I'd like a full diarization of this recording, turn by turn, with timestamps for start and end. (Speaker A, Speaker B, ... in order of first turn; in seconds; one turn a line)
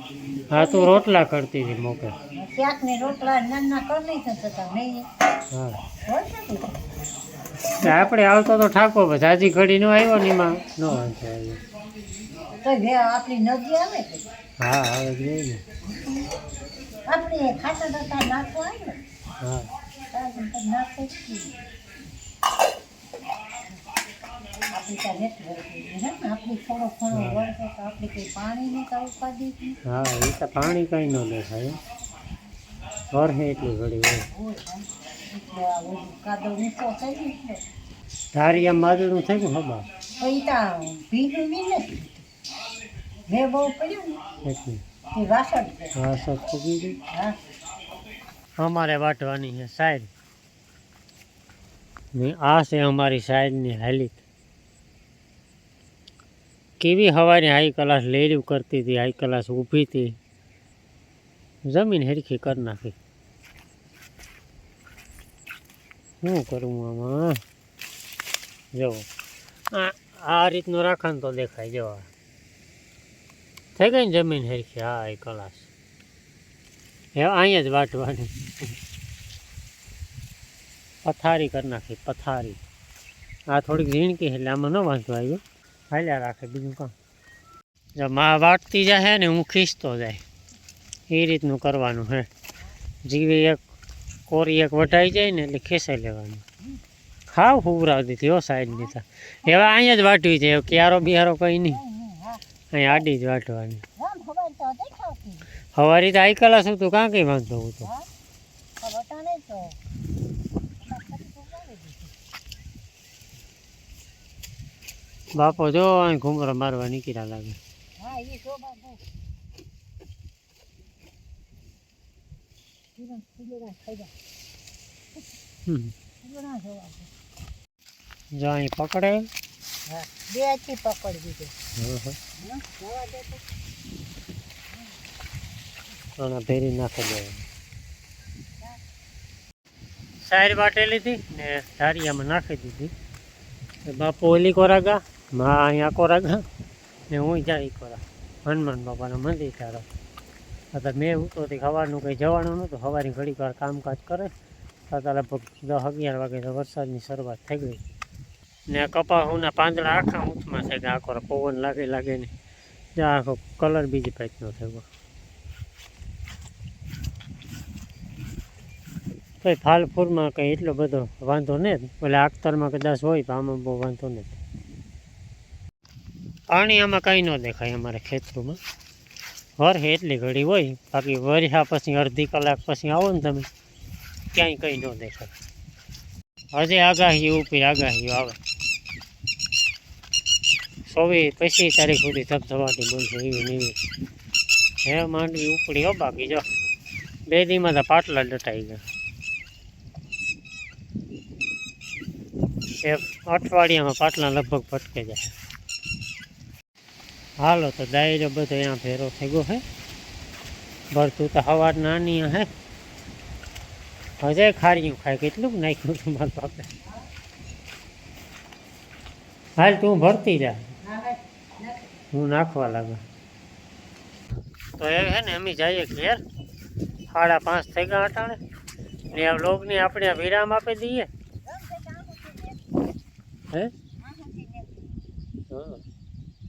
Speaker A: 0.5-2.1
Speaker B: 0.5-1.1
Speaker B: 2.3-5.0
Speaker A: 5.5-5.8
Speaker B: 6.0-6.8
Speaker A: 7.8-11.6
Speaker B: 7.8-8.1
Speaker B: 12.5-14.3
Speaker A: 14.6-15.6
Speaker B: 15.9-16.3
Speaker B: 17.1-19.0
Speaker A: 19.4-19.7
Speaker B: 20.1-21.5
Speaker B: 24.7-29.8
Speaker A: 27.1-27.5
Speaker A: 29.8-31.8
Speaker A: 33.1-34.3
Speaker B: 34.3-37.6
Speaker A: 38.3-39.8
Speaker B: 40.2-42.2
Speaker B: 43.3-44.2
Speaker A: 44.4-44.8
Speaker B: 45.1-45.9
Speaker A: 45.9-47.0
Speaker A: 48.6-50.1
Speaker A: 52.1-54.2
Speaker A: 56.8-60.2
Speaker A: 61.6-63.0
Speaker A: 66.2-67.4
Speaker A: 68.7-69.1
Speaker A: 69.7-72.1
Speaker A: 73.7-75.7
Speaker A: 77.1-78.7
Speaker A: 81.0-82.6
Speaker A: 83.5-86.9
Speaker A: 88.0-90.2
Speaker A: 91.1-92.3
Speaker A: 93.0-93.6
Speaker A: 94.3-96.4
Speaker A: 97.3-101.8
Speaker B: 99.5-99.7
Speaker B: 101.7-102.4
Speaker A: 102.7-103.8
Speaker B: 104.0-105.5
Speaker A: 105.7-107.9
Speaker B: 108.8-109.8
Speaker B: 110.8-112.1
Speaker A: 115.3-117.6
Speaker B: 118.0-119.0
Speaker B: 123.0-124.1
Speaker A: 125.7-125.9
Speaker B: 126.2-127.1
Speaker A: 128.3-129.3
Speaker B: 129.9-131.5
Speaker A: 131.8-132.2
Speaker B: 132.4-133.4
Speaker A: 136.2-137.4
Speaker A: 140.2-142.9
Speaker A: 143.9-146.4
Speaker A: 147.1-149.8
Speaker A: 150.7-154.3
Speaker A: 154.9-157.8
Speaker A: 158.7-162.3
Speaker A: 162.9-164.8
Speaker A: 169.4-174.4
Speaker A: 176.5-178.6
Speaker A: 179.6-183.5
Speaker A: 184.3-185.3
Speaker A: 186.5-188.4
Speaker A: 190.8-193.8
Speaker A: 194.8-196.4
Speaker A: 197.3-198.8
Speaker A: 202.8-205.3
Speaker A: 207.4-209.6
Speaker A: 210.9-212.5
Speaker A: 214.2-216.7
Speaker A: 219.6-220.6
Speaker B: 220.8-221.9
Speaker A: 222.1-223.0
Speaker A: 224.8-226.2
Speaker A: 227.1-228.4
Speaker A: 229.1-231.1
Speaker B: 231.4-232.7
Speaker B: 234.0-234.9
Speaker A: 235.5-235.8